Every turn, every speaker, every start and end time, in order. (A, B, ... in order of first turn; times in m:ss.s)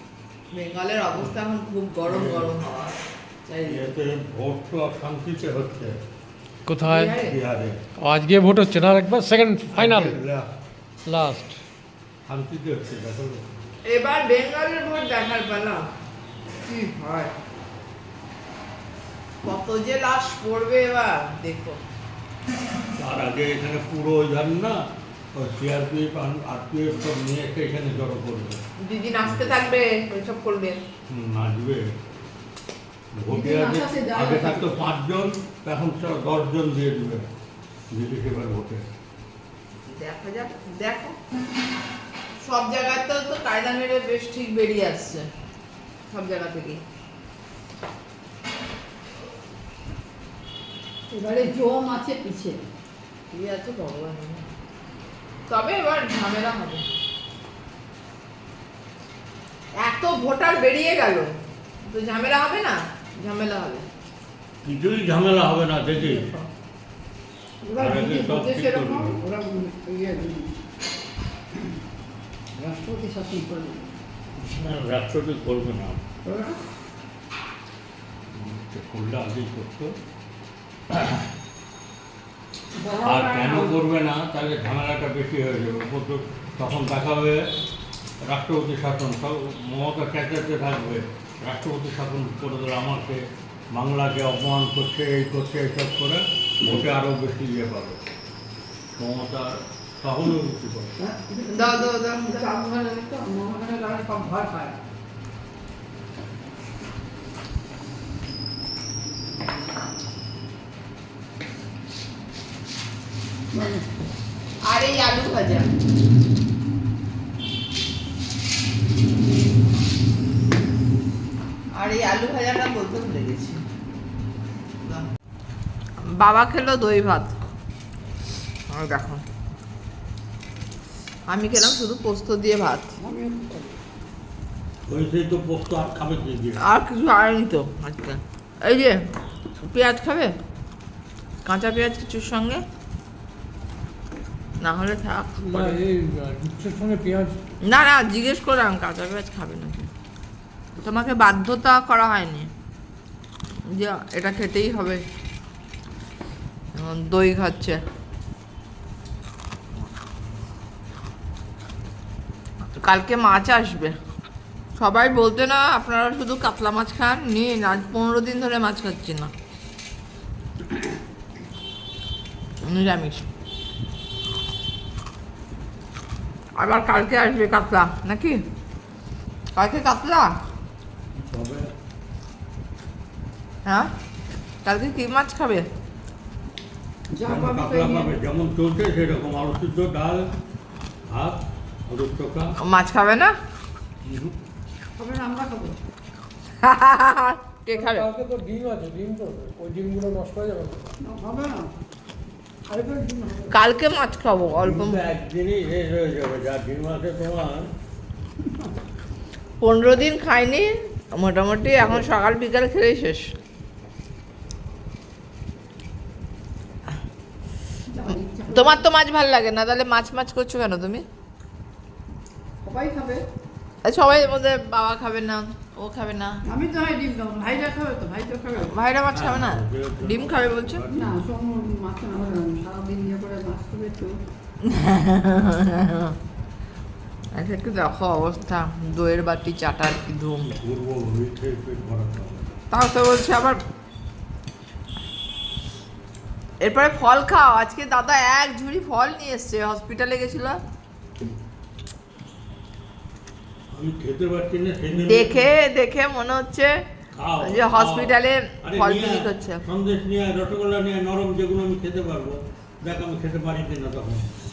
0:00.5-0:03.9 A
0:02.1-0:02.6 B
0:03.6-0:06.0 B
0:06.7-0:07.2 C
0:06.8-0:07.3 A
0:07.2-0:07.8 B
0:08.0-0:10.1 C
0:09.7-0:10.5 B
0:11.1-0:11.6 C
0:12.3-0:13.4 B
0:13.8-0:15.9 A
0:16.6-0:17.3 A
0:19.4-0:21.8 A
0:23.0-0:24.8 B
0:25.3-0:28.6 B
0:28.8-0:30.8 A
0:29.2-0:29.6 B
0:31.1-0:31.9 B
0:33.1-0:37.3 B
0:33.3-0:34.7 D
0:37.9-0:38.9 B
0:39.9-0:41.1 A
0:42.4-0:45.2 A
0:46.1-0:46.8 A
0:51.1-0:52.6 D
0:53.3-0:54.4 A
0:55.5-0:56.9 A
0:59.8-1:01.3 A
1:01.8-1:03.9 A
1:04.6-1:06.3 B
1:06.0-1:06.5 A
1:07.6-1:10.6 D
1:07.8-1:09.2 B
1:12.6-1:14.0 D
1:14.4-1:16.0 B
1:16.2-1:16.6 D
1:18.3-1:19.9 B
1:20.9-1:21.2 B
1:22.8-1:23.8 D
1:23.0-1:27.4 B
1:28.2-1:38.0 B
1:38.9-1:40.9 B
1:41.0-1:44.8 D
1:41.5-1:42.3 A
1:53.5-1:53.9 D
1:54.6-1:55.7 A
2:01.7-2:03.6 A
2:06.0-2:07.4 A
2:08.7-2:09.2 A
2:11.3-2:12.9 A
2:13.0-2:13.8 D
2:14.9-2:16.6 B
2:16.6-2:19.0 A
2:19.6-2:20.3 A
2:21.4-2:22.6 A
2:24.6-2:25.8 A
2:25.4-2:27.3 C
2:27.6-2:29.9 A
2:30.8-2:32.5 A
2:33.7-2:35.0 A
2:36.8-2:37.8 A
2:42.8-2:44.0 A
2:44.8-2:49.3 A
2:52.6-2:53.3 A
2:56.6-2:58.4 A
2:59.6-3:00.3 A
3:01.1-3:01.7 B
3:04.6-3:05.6 A
3:07.1-3:08.1 D
3:07.2-3:10.3 B
3:11.1-3:12.6 B
3:12.6-3:13.3 A
3:14.0-3:14.3 B
3:15.0-3:15.8 D
3:16.6-3:18.1 A
3:17.7-3:20.9 C
3:21.0-3:21.8 D
3:22.7-3:23.5 D
3:23.5-3:25.0 A
3:24.6-3:27.7 B
3:29.6-3:33.3 A
3:31.7-3:32.1 B
3:37.9-3:38.8 D
3:38.5-3:41.0 A
3:42.6-3:43.3 D
3:43.8-3:46.4 A
3:46.4-3:48.7 D
3:48.6-3:50.8 A
3:49.1-3:51.2 B
3:50.9-3:54.2 D
3:54.7-3:56.1 A
3:57.3-4:00.6 A
4:00.6-4:02.5 B
4:02.7-4:03.6 A
4:06.6-4:10.6 A
4:13.7-4:15.5 B
4:15.1-4:16.8 A
4:17.2-4:24.3 B
4:17.4-4:19.6 A